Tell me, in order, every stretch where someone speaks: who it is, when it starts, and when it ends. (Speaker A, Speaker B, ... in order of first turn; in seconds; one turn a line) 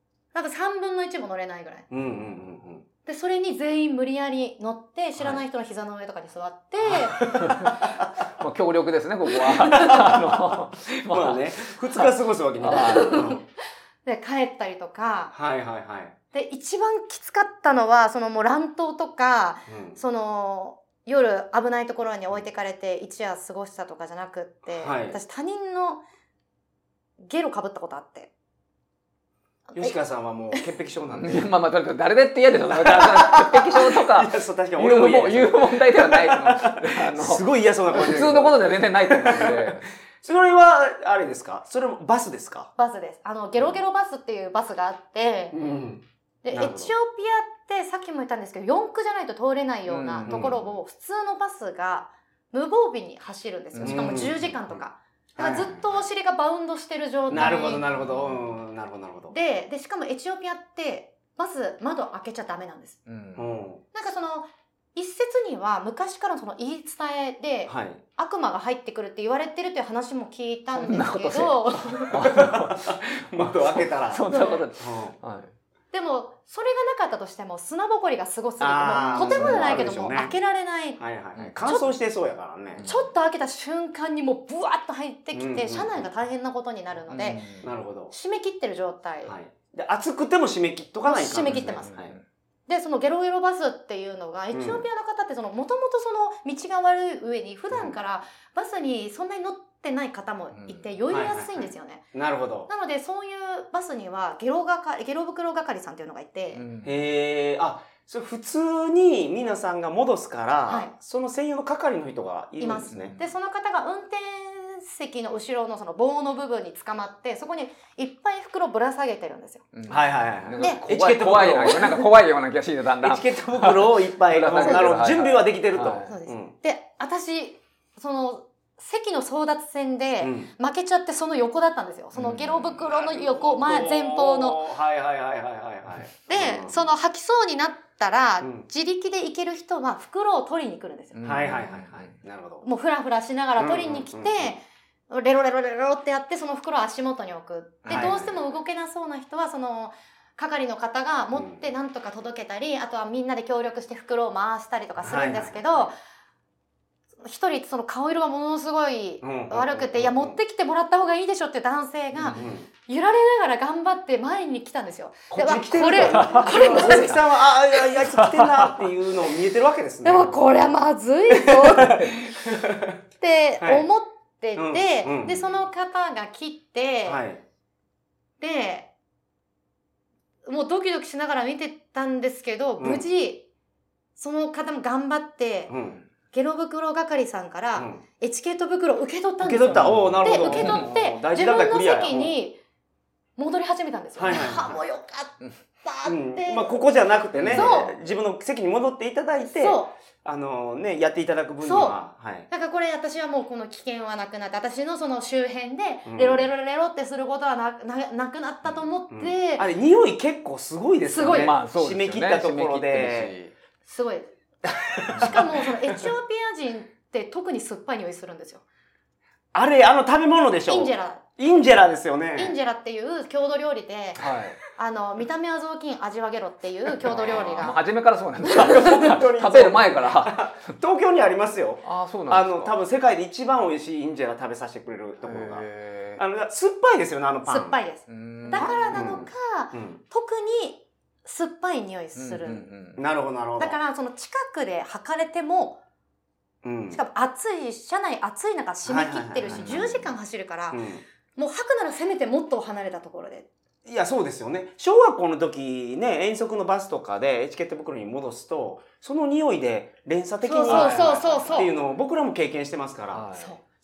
Speaker A: 0.3-1.9
Speaker B: 1.9-2.9
Speaker A: 3.1-7.5
Speaker B: 6.9-8.1
Speaker C: 7.2-7.8
Speaker C: 8.3-13.2
Speaker B: 9.7-10.2
Speaker B: 10.8-13.4
Speaker A: 12.7-13.4
Speaker A: 14.1-15.3
Speaker B: 15.3-16.1
Speaker A: 16.3-26.0
Speaker B: 19.7-20.0
Speaker B: 24.7-25.2
Speaker A: 27.2-28.3
Speaker B: 29.8-31.5
Speaker C: 31.1-39.9
Speaker B: 32.8-42.7
Speaker A: 42.8-45.5
Speaker B: 45.5-46.9
Speaker A: 46.4-57.9
Speaker C: 49.9-50.7
Speaker B: 50.3-50.6
Speaker C: 53.7-54.5
Speaker B: 53.8-54.8
Speaker B: 55.4-55.9
Speaker B: 57.3-59.4
Speaker C: 57.3-58.5
Speaker A: 59.3-63.0
Speaker C: 63.1-63.5
Speaker B: 63.4-63.8
Speaker A: 63.9-72.3
Speaker B: 67.7-68.0
Speaker C: 70.7-75.5
Speaker B: 72.2-75.2
Speaker A: 74.3-74.6
Speaker A: 75.9-81.0
Speaker B: 78.6-80.3
Speaker C: 79.0-79.9
Speaker B: 81.0-82.8
Speaker C: 81.4-81.7
Speaker A: 81.6-82.0
Speaker C: 82.8-83.1
Speaker A: 82.8-87.5
Speaker B: 85.3-86.1
Speaker C: 87.1-87.7
Speaker B: 87.6-88.1
Speaker A: 88.1-89.3
Speaker B: 89.2-92.2
Speaker A: 91.0-91.9
Speaker C: 91.5-92.2
Speaker A: 92.7-102.1
Speaker B: 94.5-94.8
Speaker C: 100.5-101.0
Speaker B: 101.1-102.7
Speaker A: 102.7-106.7
Speaker C: 106.5-107.0
Speaker B: 106.8-113.2
Speaker A: 110.7-110.9
Speaker A: 112.6-119.7
Speaker C: 112.9-113.3
Speaker C: 119.7-126.1
Speaker B: 119.9-122.1
Speaker A: 120.6-120.8
Speaker B: 123.0-126.5
Speaker A: 124.5-124.9
Speaker A: 126.1-134.6
Speaker B: 130.2-130.5
Speaker C: 132.2-132.8
Speaker B: 132.8-136.9
Speaker A: 136.3-141.2
Speaker B: 138.4-138.7
Speaker C: 141.1-142.1
Speaker B: 141.2-142.7
Speaker A: 142.6-155.9
Speaker B: 143.6-144.5
Speaker B: 147.9-148.4
Speaker C: 147.9-148.2
Speaker B: 151.3-151.6
Speaker B: 155.0-155.9
Speaker A: 157.2-167.2
Speaker B: 159.2-160.4
Speaker C: 162.2-162.4
Speaker B: 162.3-162.7
Speaker B: 165.3-170.4
Speaker C: 166.1-167.2
Speaker C: 168.2-168.7
Speaker A: 170.0-172.1
Speaker B: 171.4-173.0
Speaker A: 173.2-177.2
Speaker B: 173.6-173.8
Speaker B: 174.6-175.6
Speaker B: 177.1-177.4
Speaker A: 178.4-178.9
Speaker A: 180.4-183.5
Speaker B: 182.8-183.0
Speaker A: 184.2-185.7
Speaker B: 185.7-186.0
Speaker A: 186.3-192.6
Speaker B: 187.8-188.0
Speaker B: 189.4-192.4
Speaker C: 190.0-190.9
Speaker A: 193.4-196.8
Speaker B: 194.2-194.8
Speaker B: 196.0-202.5
Speaker C: 197.3-197.8
Speaker A: 197.5-198.0
Speaker A: 199.4-199.9
Speaker A: 201.6-202.0
Speaker A: 202.5-209.7
Speaker B: 206.1-206.5
Speaker B: 209.1-213.3
Speaker A: 211.1-211.6
Speaker C: 211.2-213.6
Speaker A: 213.9-214.3
Speaker B: 214.7-216.1
Speaker C: 215.1-215.4
Speaker A: 215.2-218.7
Speaker B: 219.5-222.6
Speaker A: 220.7-221.2
Speaker A: 222.4-227.8
Speaker C: 224.2-224.6
Speaker B: 227.0-227.7
Speaker C: 227.1-230.7
Speaker B: 228.4-235.7
Speaker A: 228.5-228.9
Speaker C: 231.8-232.7
Speaker C: 235.2-236.2
Speaker B: 236.2-237.8
Speaker A: 237.5-242.7
Speaker C: 238.1-239.1
Speaker B: 238.6-240.0
Speaker C: 242.2-243.0
Speaker B: 243.0-243.8
Speaker A: 243.6-245.8
Speaker B: 246.6-247.0
Speaker A: 246.9-250.8
Speaker B: 248.8-249.8
Speaker C: 249.5-250.1
Speaker B: 250.7-251.1
Speaker A: 251.4-253.5
Speaker B: 253.8-263.3
Speaker A: 260.4-261.7
Speaker C: 260.7-262.0
Speaker C: 263.1-263.6
Speaker A: 263.4-263.6